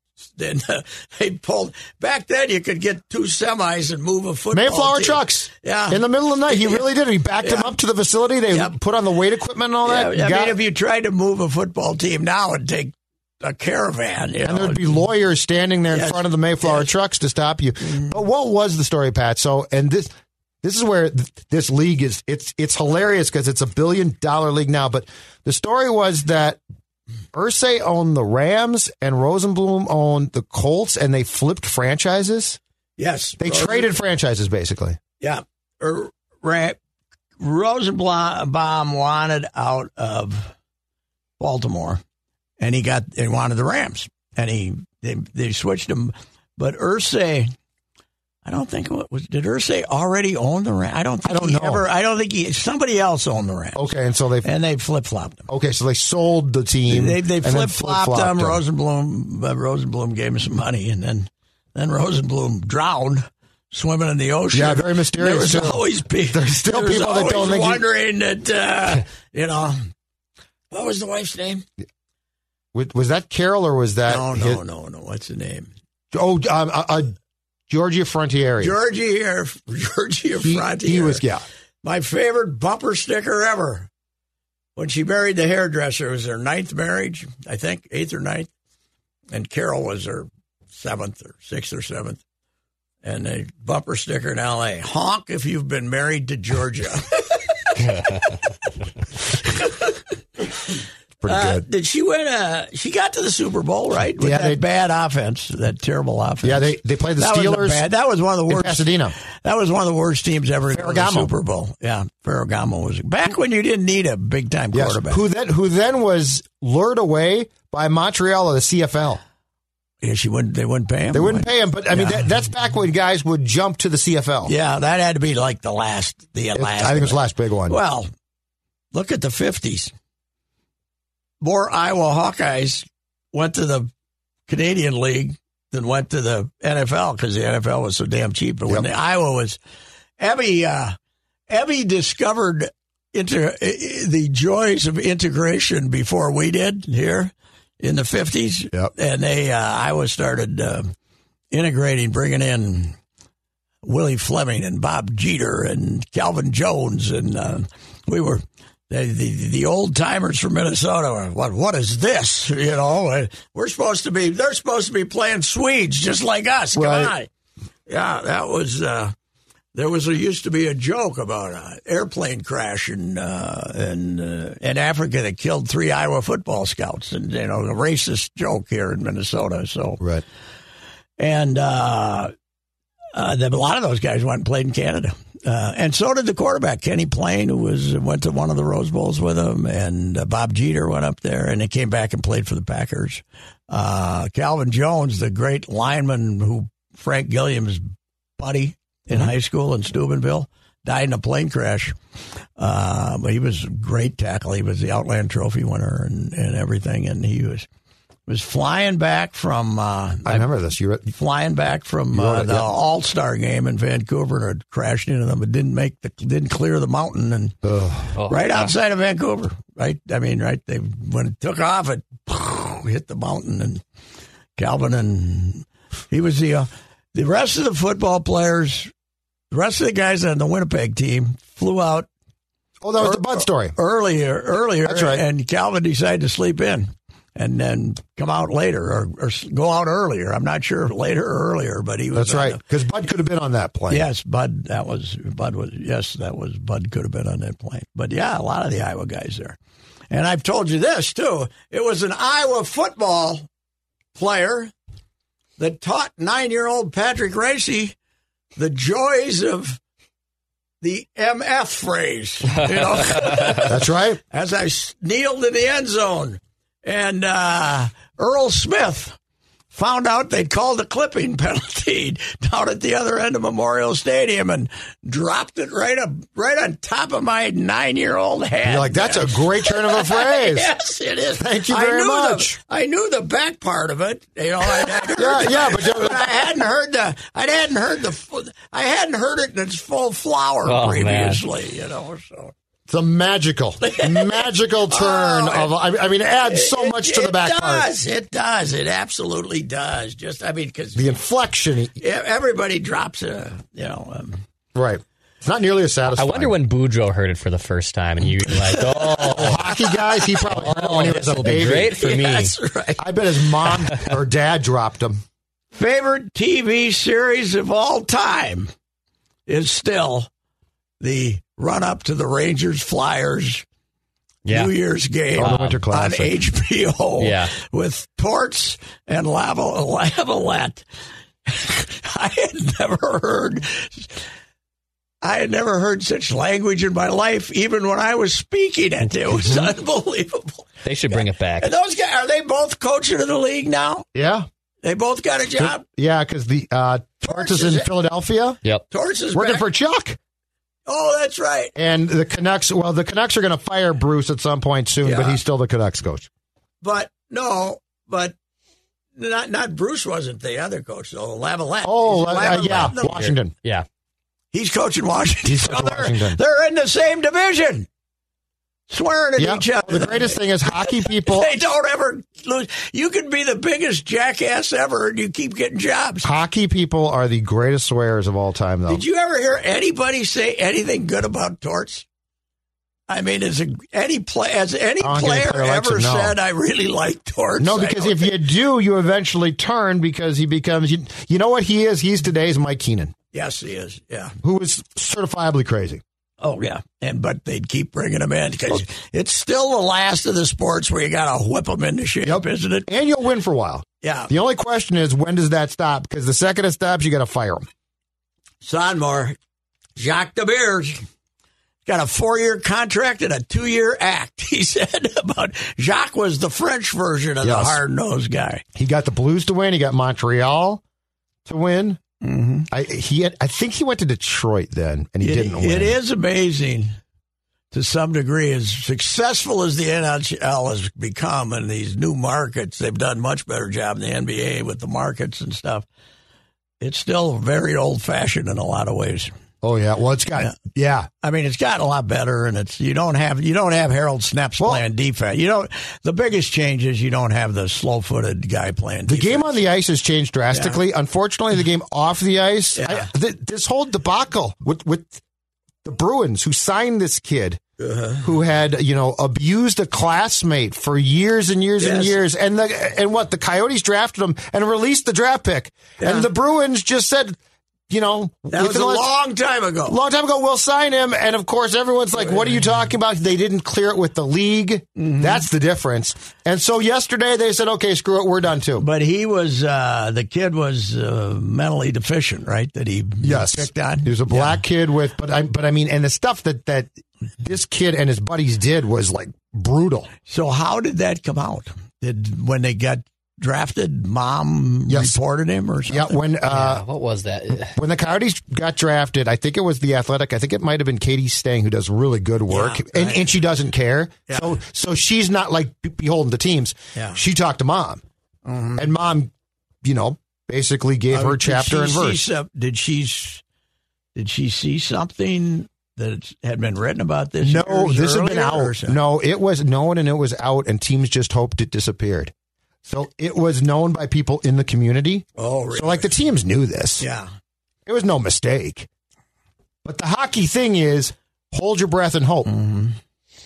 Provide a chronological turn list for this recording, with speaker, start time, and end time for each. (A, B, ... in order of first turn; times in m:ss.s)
0:00.4-0:06.8 A
0:04.5-0:10.6 B
0:07.4-0:07.8 A
0:08.5-0:08.8 A
0:09.8-0:15.0 A
0:14.4-0:20.1 B
0:15.9-0:16.9 A
0:20.6-0:26.6 B
0:27.3-0:32.6 B
0:33.0-0:33.9 A
0:33.4-0:35.0 B
0:35.2-0:36.8 A
0:37.4-0:40.5 A
0:41.4-0:42.0 A
0:42.6-0:47.5 A
0:48.4-0:53.8 A
0:51.2-0:51.8 B
0:53.8-0:54.5 B
0:54.4-0:55.4 A
0:55.5-0:58.6 B
0:56.9-1:09.9 A
1:04.5-1:07.8 B
1:10.7-1:11.6 A
1:12.7-1:14.6 B
1:14.1-1:15.7 A
1:16.1-1:17.2 B
1:17.7-1:18.8 B
1:18.6-1:21.2 A
1:20.4-1:21.4 B
1:21.8-1:23.9 A
1:24.8-1:28.5 A
1:29.3-1:32.2 A
1:33.0-1:38.4 A
1:39.3-1:40.7 A
1:41.2-1:41.6 B
1:41.3-1:55.2 A
1:44.2-1:44.6 B
1:46.4-1:47.9 B
1:48.5-1:49.2 B
1:50.7-1:51.3 B
1:54.7-1:59.2 B
2:00.0-2:02.3 A
2:01.1-2:04.5 B
2:04.5-2:08.1 A
2:06.6-2:07.8 B
2:08.9-2:09.9 A
2:11.4-2:13.9 A
2:14.5-2:19.6 A
2:20.2-2:21.0 A
2:21.5-2:30.9 A
2:31.5-2:33.0 A
2:33.8-2:47.3 A
2:46.8-2:47.1 B
2:47.9-2:49.1 A
2:49.8-3:00.0 A
3:01.2-3:02.3 A
3:03.1-3:17.8 A
3:18.4-3:22.0 A
3:22.6-3:27.7 A
3:28.3-3:30.5 A
3:30.2-3:31.1 B
3:31.1-3:37.6 A
3:32.1-3:32.7 B
3:37.6-3:38.1 B
3:38.2-3:38.7 C
3:38.3-3:43.8 A
3:44.6-3:48.9 A
3:49.5-3:52.1 A
3:52.8-3:53.8 B
3:53.0-4:02.6 A
3:54.8-3:55.2 B
4:02.1-4:04.1 B
4:03.9-4:09.6 A
4:10.1-4:13.5 A
4:14.2-4:14.7 A
4:15.6-4:17.9 A
4:18.6-4:19.8 A
4:20.8-4:29.2 A
4:23.6-4:24.2 B
4:29.7-4:52.5 A
4:38.6-4:40.7 B
4:41.4-4:42.6 B
4:45.1-4:46.3 B
4:50.6-4:51.4 C
4:52.9-4:57.9 B
4:53.8-4:55.8 A
4:56.4-5:01.2 A
5:01.0-5:01.9 B
5:02.0-5:04.4 A
5:04.8-5:06.6 B
5:06.2-5:09.7 C
5:08.4-5:13.8 A
5:09.1-5:12.0 B
5:10.4-5:12.5 C
5:13.0-5:15.2 B
5:15.7-5:18.7 A
5:19.5-5:20.3 A
5:21.0-5:23.6 A
5:24.5-5:24.7 C
5:24.5-5:30.8 A
5:25.4-5:26.3 B
5:25.4-5:25.8 C
5:27.2-5:27.5 C
5:31.5-5:34.2 A
5:35.2-5:44.1 A
5:39.4-5:39.7 C
5:40.8-5:41.7 C
5:44.2-5:44.5 B
5:44.8-5:45.8 A
5:45.6-5:48.6 B
5:47.2-5:47.9 A
5:48.9-5:49.7 A
5:49.3-5:50.2 B
5:50.9-5:51.8 A
5:51.8-5:56.3 B
5:55.0-5:55.4 A
5:56.8-5:58.4 A
5:59.2-6:03.3 A
6:01.8-6:03.5 B
6:02.6-6:03.8 C
6:04.5-6:07.9 A
6:05.4-6:06.4 B
6:08.9-6:16.3 A
6:09.4-6:11.5 B
6:16.2-6:19.0 B
6:18.9-6:22.0 A
6:23.1-6:28.4 A
6:25.0-6:26.4 B
6:27.6-6:33.1 B
6:33.3-6:34.4 A
6:34.4-6:36.0 B
6:36.4-6:42.9 A
6:42.2-6:47.7 B
6:44.0-6:44.3 A
6:48.6-6:49.4 A
6:50.0-6:51.0 A
6:51.9-6:58.6 A
6:57.4-6:57.8 B
6:58.8-7:00.8 B
7:01.5-7:02.0 B
7:02.2-7:02.7 A
7:02.7-7:06.0 B
7:05.2-7:07.0 A
7:07.7-7:15.8 A
7:16.8-7:19.3 A
7:19.6-7:21.1 B
7:21.2-7:29.6 A
7:29.1-7:35.2 B
7:30.5-7:30.8 A
7:32.8-7:33.1 A
7:35.8-7:37.6 B
7:37.8-7:38.3 A
7:38.2-7:47.4 B
7:41.8-7:42.2 A
7:46.0-7:46.3 A
7:47.9-7:49.1 B
7:48.5-7:50.0 A
7:49.9-7:58.9 B
7:52.2-7:52.6 A
7:55.0-7:55.5 A
7:58.8-8:04.6 A
8:03.2-8:06.9 B
8:07.4-8:10.1 B
8:10.3-8:16.2 A
8:14.9-8:15.2 B
8:15.9-8:16.8 B
8:16.5-8:17.8 C
8:17.7-8:28.0 B
8:22.5-8:23.3 A
8:24.3-8:24.5 A
8:27.0-8:27.2 A
8:28.4-8:28.9 A
8:28.8-8:29.3 B
8:29.8-8:32.2 B
8:31.1-8:33.4 A
8:34.2-8:39.0 A
8:37.4-8:42.3 B
8:42.9-8:47.1 B
8:45.4-8:46.1 A
8:47.0-8:47.3 A
8:47.9-8:48.9 B
8:49.8-8:52.5 B
8:52.4-8:53.0 A